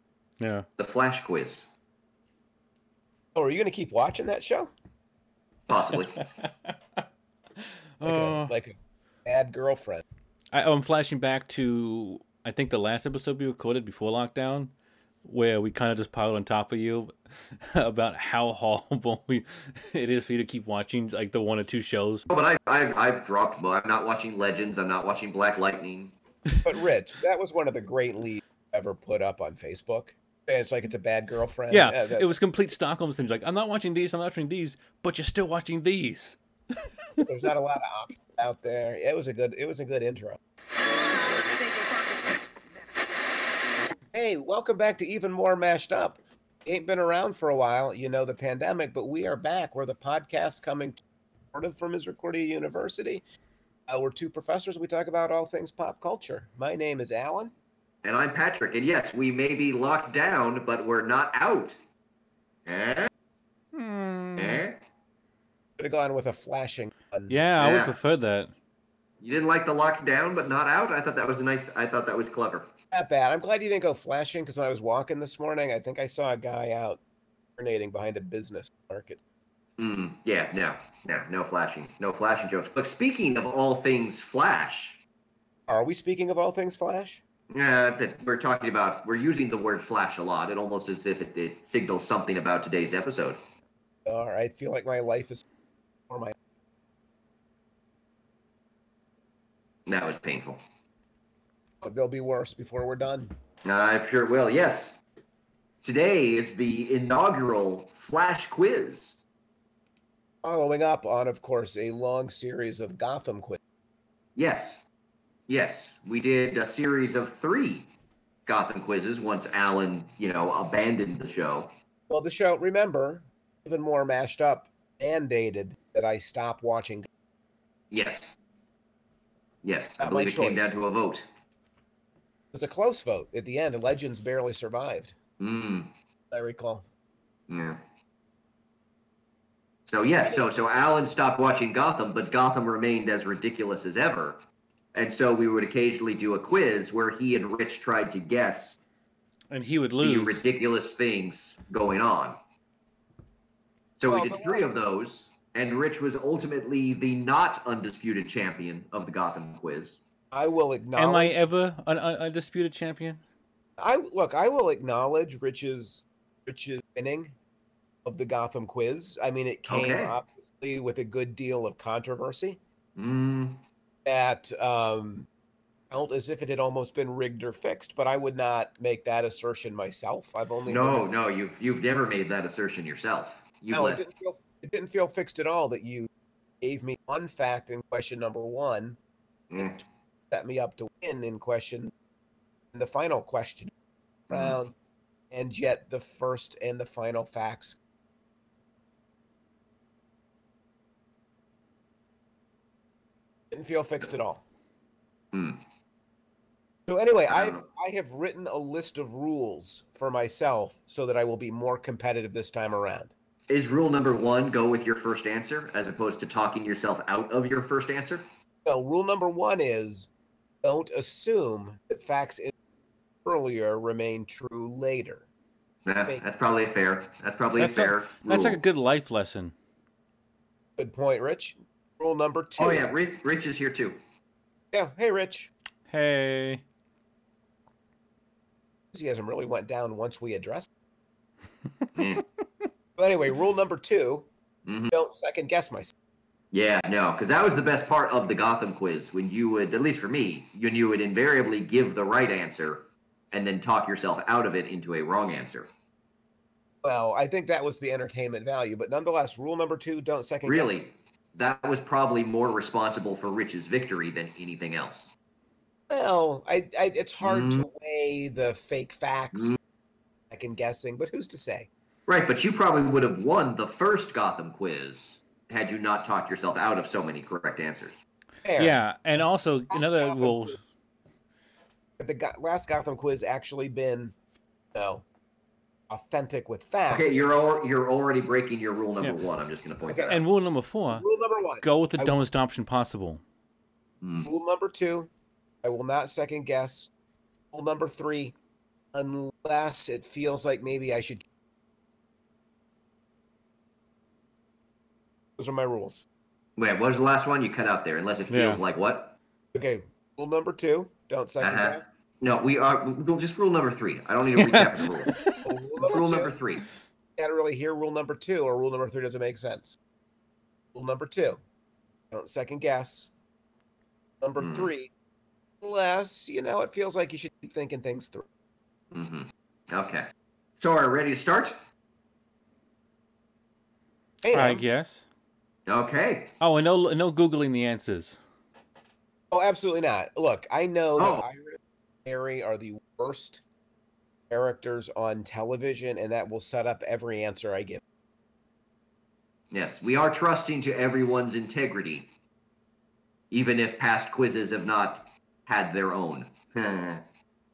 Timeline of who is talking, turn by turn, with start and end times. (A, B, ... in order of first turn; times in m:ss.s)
0:00.4-0:00.7 A
0:00.8-0:01.6 B
0:03.4-0:04.7 C
0:05.7-0:06.2 B
0:05.9-0:07.0 A
0:07.6-0:08.5 A
0:08.0-0:10.0 C
0:10.5-0:14.7 A
0:15.2-0:22.3 A
0:22.3-0:26.1 B
0:26.6-0:32.3 C
0:31.7-0:36.4 A
0:37.2-0:40.4 C
0:44.1-0:51.0 C
0:51.5-0:53.2 C
0:53.9-0:57.5 C
0:58.0-1:01.8 B
1:02.7-1:03.1 B
1:03.7-1:04.6 A
1:04.4-1:04.8 B
1:05.8-1:07.4 C
1:07.3-1:08.5 A
1:07.6-1:08.0 B
1:09.2-1:12.7 B
1:12.9-1:17.0 C
1:17.6-1:19.2 C
1:19.8-1:25.0 B
1:25.7-1:27.2 C
1:27.5-1:33.4 B
1:34.1-1:35.4 C
1:36.1-1:36.4 C
1:39.9-1:40.6 B
1:41.8-1:43.3 C
1:43.6-1:45.0 B
1:45.8-1:49.2 B
1:50.4-1:53.6 C
1:54.4-1:54.8 B
1:55.5-1:57.9 B
1:58.5-2:01.7 B
2:02.1-2:07.1 C
2:07.9-2:08.3 B
2:09.6-2:11.2 B
2:10.0-2:10.8 C
2:12.5-2:15.1 C
2:15.4-2:15.9 B
2:16.3-2:16.8 C
2:17.5-2:17.8 B
2:19.9-2:24.4 B
2:24.9-2:28.8 B
2:29.5-2:30.5 A
2:30.0-2:32.4 B
2:34.0-2:40.0 B
2:34.1-2:34.7 C
2:40.3-2:41.4 C
2:41.0-2:43.2 A
2:43.8-2:47.3 C
2:48.0-2:52.6 C
2:49.7-2:50.2 B
2:53.0-2:53.6 B
2:54.1-2:55.3 C
2:55.9-3:01.1 C
3:00.7-3:04.0 B
3:03.7-3:06.1 C
3:06.6-3:09.0 C
3:09.5-3:09.8 B
3:10.3-3:11.9 C
3:12.7-3:13.7 C
3:14.3-3:14.7 C
3:14.3-3:14.6 B
3:15.3-3:17.8 C
3:23.5-3:24.4 C
3:25.3-3:25.6 B
3:26.9-3:33.1 C
3:27.3-3:27.6 B
3:33.5-3:38.2 B
3:38.7-3:40.1 C
3:40.6-3:42.5 C
3:43.2-3:45.2 C
3:45.9-3:48.6 B
3:46.0-3:46.2 C
3:47.6-3:49.5 A
3:50.8-3:52.9 C
3:52.6-3:54.0 B
3:54.7-3:55.5 C
3:55.9-3:56.6 A
3:58.9-4:00.7 C
4:02.0-4:02.2 B
4:03.0-4:04.3 C
4:04.7-4:04.9 B
4:04.9-4:05.9 C
4:06.5-4:15.7 B
4:16.8-4:20.8 C
4:20.5-4:25.1 B
4:25.9-4:29.5 C
4:27.2-4:27.7 B
4:30.3-4:31.7 C
4:32.1-4:38.0 B
4:38.4-4:38.8 C
4:38.6-4:40.6 A
4:39.7-4:40.6 C
4:42.0-4:44.2 C
4:44.8-4:45.0 C
4:45.9-4:47.3 C
4:46.9-4:50.2 B
4:49.9-4:50.1 C
4:50.1-4:51.0 A
4:50.9-4:52.2 C
4:51.6-4:53.2 A
4:54.0-4:54.3 B
4:54.2-4:55.1 C
4:55.6-4:56.9 C
4:57.5-4:58.3 C
4:58.9-5:01.2 C
5:05.4-5:06.0 C
5:06.6-5:09.2 B
5:08.3-5:08.6 A
5:09.5-5:11.9 C
5:11.4-5:15.1 B
5:14.3-5:15.4 A
5:15.4-5:16.3 C
5:15.8-5:16.6 B
5:17.2-5:19.8 C
5:20.8-5:21.4 C
5:22.1-5:23.1 C
5:24.2-5:24.9 C
5:24.4-5:24.7 B
5:25.6-5:28.3 C
5:28.9-5:31.6 B
5:34.2-5:34.6 C
5:34.3-5:35.0 A
5:35.7-5:36.3 B
5:36.4-5:38.2 A
5:39.3-5:43.4 C
5:41.0-5:41.2 B
5:44.3-5:47.8 C
5:49.5-5:52.1 B
5:53.3-5:57.0 B